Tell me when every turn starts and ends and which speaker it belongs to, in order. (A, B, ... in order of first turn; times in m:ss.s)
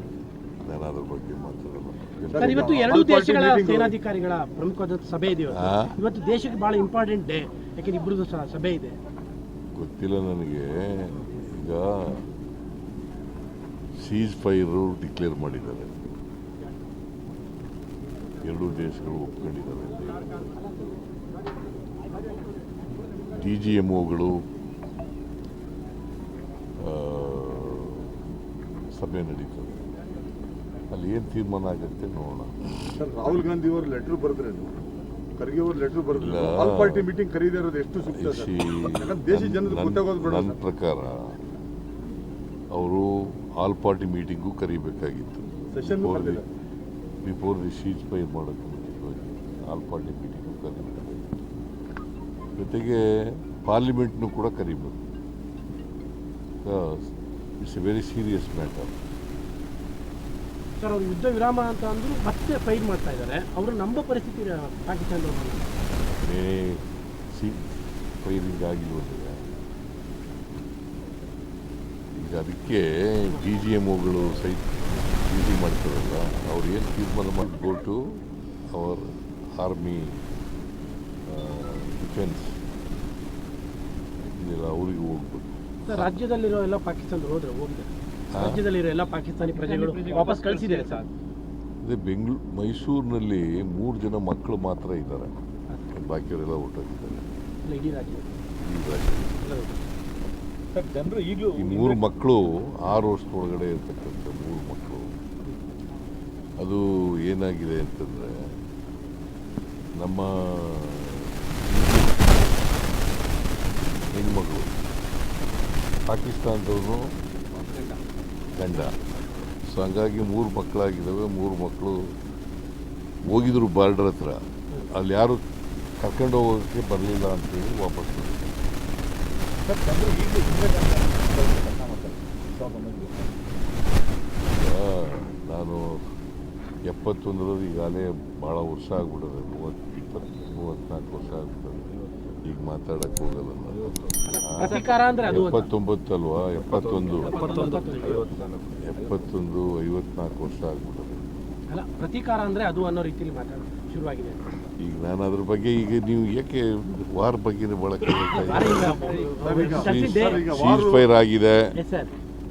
0:00.6-0:03.0 A
0:02.3-0:03.9 B
0:02.4-0:09.0 C
0:05.5-0:05.9 A
0:09.8-0:12.3 A
0:14.0-0:16.0 A
0:18.4-0:20.4 A
0:23.3-0:24.4 A
0:26.8-0:28.2 A
0:28.9-0:29.8 A
0:30.9-0:32.6 A
0:32.9-0:34.7 B
0:35.4-0:40.6 B
0:36.1-0:37.1 A
0:38.1-0:41.4 A
0:42.7-0:46.4 A
0:45.7-0:46.5 B
0:47.2-0:51.4 A
0:52.6-0:53.0 A
0:53.6-0:55.0 A
0:56.6-0:57.1 A
0:57.6-0:59.0 A
1:00.8-1:05.6 C
1:06.2-1:07.7 A
1:08.2-1:09.4 A
1:12.2-1:18.2 A
1:18.7-1:20.2 A
1:21.3-1:22.6 A
1:24.3-1:26.1 A
1:25.9-1:31.1 C
1:28.3-1:28.6 A
1:29.5-1:31.1 D
1:31.8-1:35.3 A
1:35.9-1:37.3 A
1:37.6-1:38.3 C
1:38.6-1:39.5 A
1:39.4-1:39.8 C
1:40.7-1:42.0 D
1:41.6-1:45.1 A
1:46.6-1:48.4 A
1:50.0-1:52.6 A
1:54.1-1:54.7 A
1:56.1-1:57.1 A
1:58.6-1:59.0 A
1:59.7-2:02.1 A
2:03.3-2:05.4 A
2:06.0-2:08.5 A
2:09.6-2:13.3 D
2:14.5-2:16.0 A
2:16.9-2:27.6 A
2:24.3-2:25.7 C
2:27.2-2:28.3 C
2:27.3-2:27.9 D
2:28.8-2:31.3 A
2:31.7-2:34.4 C
2:34.8-2:41.7 A
2:38.3-2:40.4 C
2:39.1-2:41.1 B
2:41.8-2:42.1 C